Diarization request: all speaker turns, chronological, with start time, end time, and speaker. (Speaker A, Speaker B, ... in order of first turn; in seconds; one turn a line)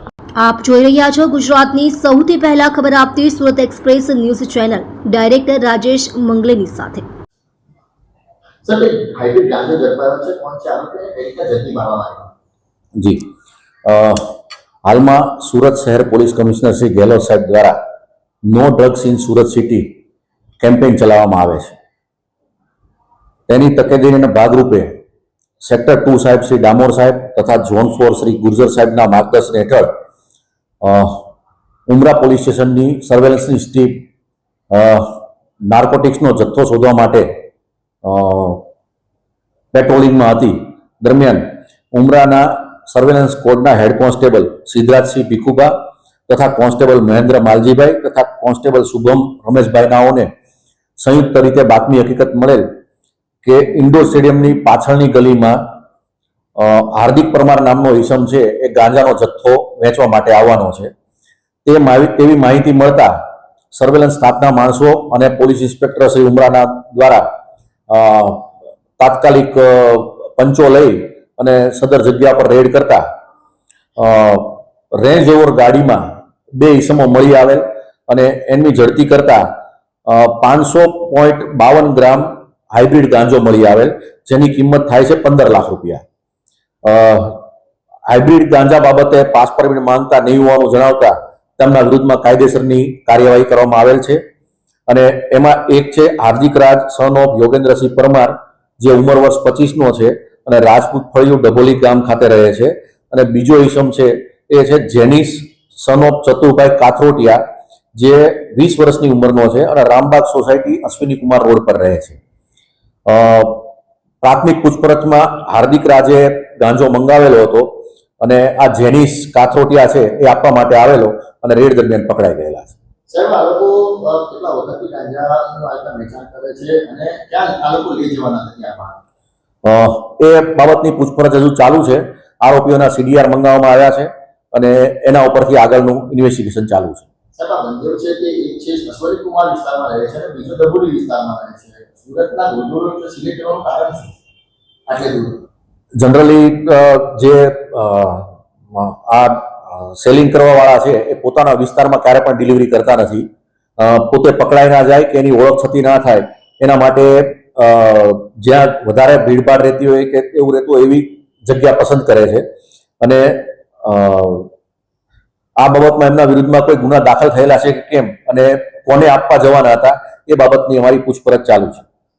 Speaker A: 0.4-7.1
Speaker B: 8.6-12.3
Speaker C: 13.0-13.3
Speaker C: 13.8-17.8
Speaker C: 18.5-19.9
Speaker C: 20.6-21.8
Speaker C: 23.5-25.0
Speaker C: 25.6-29.9
Speaker C: 30.8-31.3
Speaker C: 31.9-34.1
Speaker C: 34.7-37.4
Speaker C: 38.0-38.7
Speaker C: 39.7-45.7
Speaker C: 46.3-50.3
Speaker C: 51.0-52.7
Speaker C: 53.4-55.8
Speaker C: 56.6-60.9
Speaker C: 61.6-63.1
Speaker C: 63.7-67.2
Speaker C: 67.9-73.0
Speaker C: 74.0-79.5
Speaker C: 80.1-86.0
Speaker C: 86.8-87.4
Speaker C: 88.1-94.2
Speaker C: 94.9-107.4
Speaker C: 107.9-112.2
Speaker C: 113.1-113.7
Speaker C: 114.2-122.7
Speaker B: 123.1-129.0
Speaker C: 129.6-137.1
Speaker B: 137.3-144.2
Speaker B: 144.9-145.4
Speaker C: 146.0-153.3
Speaker C: 153.8-162.4
Speaker C: 163.0-164.5
Speaker C: 165.6-171.8